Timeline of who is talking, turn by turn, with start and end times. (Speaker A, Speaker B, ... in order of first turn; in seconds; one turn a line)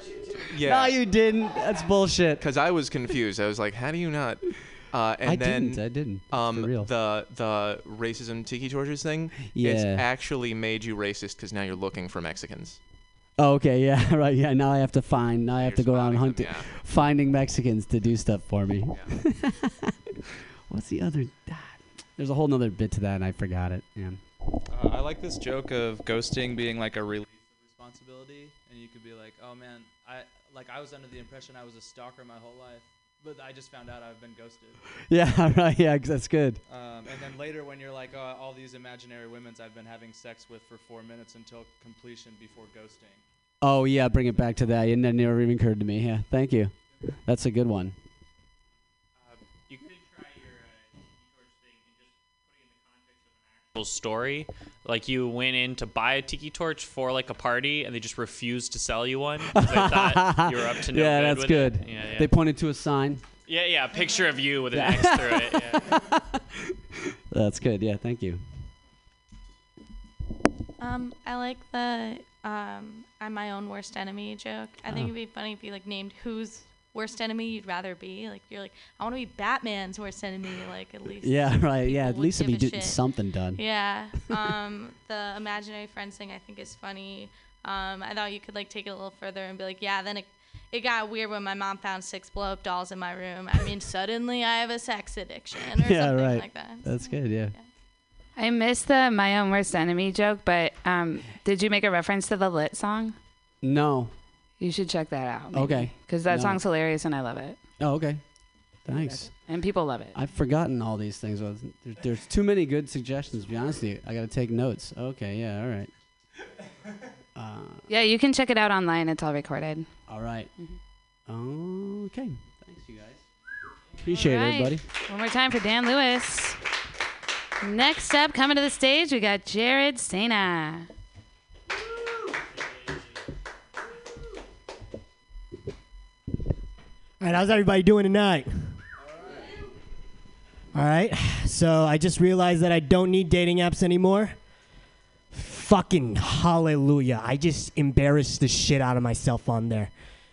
Speaker A: 0.5-1.0
Speaker B: 0.6-2.4
Speaker A: 2.4-12.8
Speaker B: 5.2-6.9
Speaker B: 9.3-10.0
Speaker B: 13.4-19.7
Speaker A: 15.6-16.6
Speaker B: 20.7-24.2
Speaker C: 24.7-34.8
Speaker B: 35.1-36.6
Speaker C: 36.7-43.2
Speaker B: 43.6-48.0
Speaker D: 49.2-62.3
Speaker B: 59.5-63.2
Speaker D: 63.4-65.8
Speaker B: 64.7-66.1
Speaker B: 67.3-68.5
Speaker E: 70.8-83.0
Speaker B: 74.8-75.1
Speaker B: 81.2-84.3
Speaker E: 83.5-97.0
Speaker B: 95.7-97.5
Speaker F: 98.3-103.2
Speaker B: 103.6-104.2
Speaker F: 104.6-107.6
Speaker B: 105.5-106.6
Speaker B: 107.8-115.9
Speaker F: 108.9-110.2
Speaker B: 117.3-117.8
Speaker F: 117.9-120.8
Speaker B: 120.1-120.7
Speaker B: 121.2-123.1
Speaker B: 124.0-124.8
Speaker F: 124.1-126.6
Speaker F: 127.6-130.9
Speaker D: 131.9-133.2
Speaker G: 137.2-138.8
Speaker G: 140.7-144.4
Speaker G: 145.3-149.9